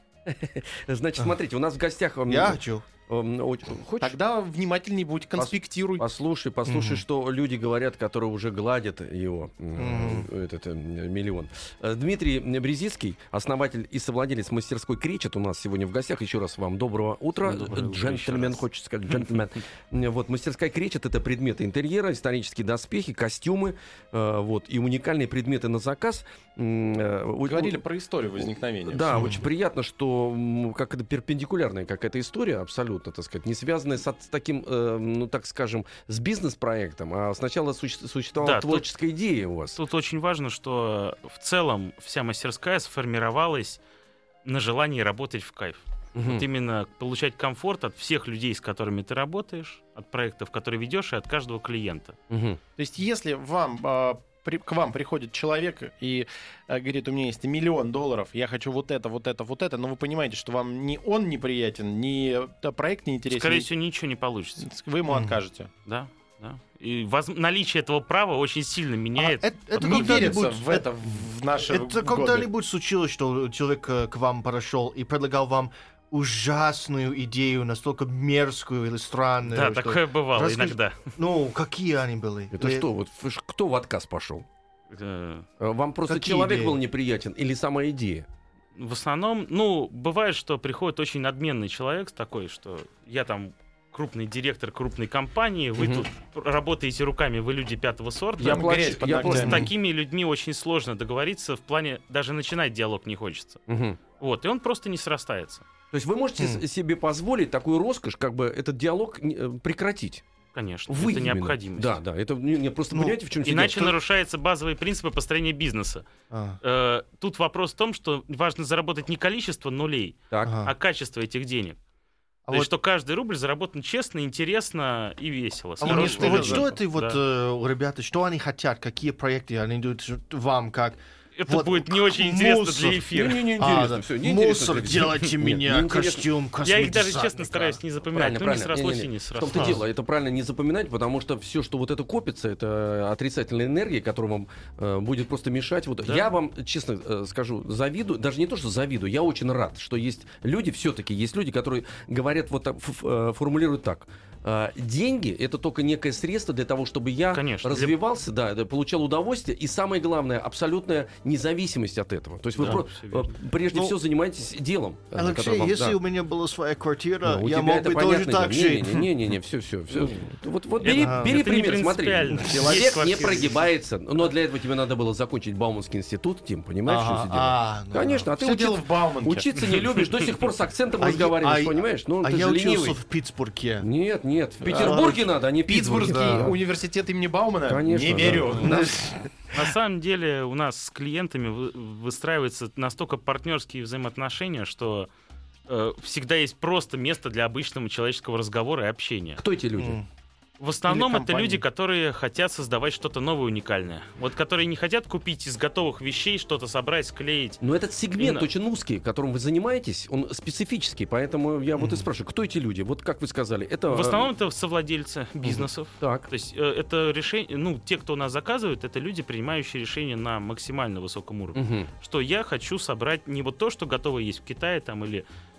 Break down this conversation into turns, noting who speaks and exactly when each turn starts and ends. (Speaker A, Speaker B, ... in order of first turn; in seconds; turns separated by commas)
Speaker A: 0.2-4.2, Speaker B: 2.3-2.9, Speaker C: 4.0-6.0, Speaker A: 5.3-27.8, Speaker B: 6.7-7.0, Speaker B: 9.8-10.3, Speaker D: 17.4-18.6, Speaker C: 27.4-29.4, Speaker A: 28.4-39.8, Speaker B: 29.1-29.4, Speaker D: 38.4-38.9, Speaker D: 39.8-43.8, Speaker D: 44.4-52.2, Speaker A: 46.1-46.5, Speaker A: 52.3-52.6, Speaker C: 52.8-63.7, Speaker D: 63.3-64.7, Speaker C: 64.6-65.7, Speaker B: 65.1-65.4, Speaker D: 65.8-70.4, Speaker B: 69.2-82.8, Speaker C: 69.8-72.5, Speaker D: 79.5-81.0, Speaker A: 82.5-84.5, Speaker D: 84.9-85.5, Speaker A: 85.6-88.3, Speaker B: 86.1-86.8, Speaker D: 88.8-103.6, Speaker A: 95.8-96.0, Speaker A: 98.4-99.7, Speaker C: 98.4-99.7, Speaker A: 103.7-104.0, Speaker D: 104.2-105.6, Speaker A: 105.9-110.2, Speaker D: 110.5-112.0, Speaker A: 110.9-113.9, Speaker B: 112.9-113.2, Speaker D: 113.4-116.0, Speaker B: 116.3-116.6, Speaker D: 116.6-121.8, Speaker A: 120.3-120.7, Speaker B: 120.4-120.7, Speaker D: 122.5-127.2, Speaker B: 125.8-133.1, Speaker C: 125.8-126.7, Speaker D: 131.4-133.4, Speaker A: 133.1-136.3, Speaker B: 133.6-137.8, Speaker D: 136.6-139.8, Speaker A: 138.1-166.0, Speaker B: 139.5-139.8, Speaker D: 146.0-146.3, Speaker D: 157.3-158.0, Speaker D: 162.6-163.3, Speaker B: 165.1-169.1, Speaker A: 167.2-183.0, Speaker D: 169.9-170.2, Speaker D: 170.8-173.6, Speaker B: 170.8-171.3, Speaker B: 176.8-178.3, Speaker C: 178.3-179.5, Speaker D: 179.6-180.3, Speaker B: 181.0-183.9, Speaker A: 183.8-186.6, Speaker C: 184.6-189.2, Speaker B: 184.7-185.2, Speaker B: 186.0-186.5, Speaker A: 187.7-188.8, Speaker B: 188.5-189.2, Speaker D: 189.5-195.1, Speaker D: 195.7-199.4, Speaker A: 199.4-200.0, Speaker B: 199.8-200.1, Speaker D: 200.6-207.6, Speaker C: 200.9-201.6, Speaker A: 207.6-214.3, Speaker D: 208.2-208.5, Speaker B: 211.8-212.1, Speaker D: 213.9-225.2, Speaker A: 215.4-216.3, Speaker A: 221.5-221.9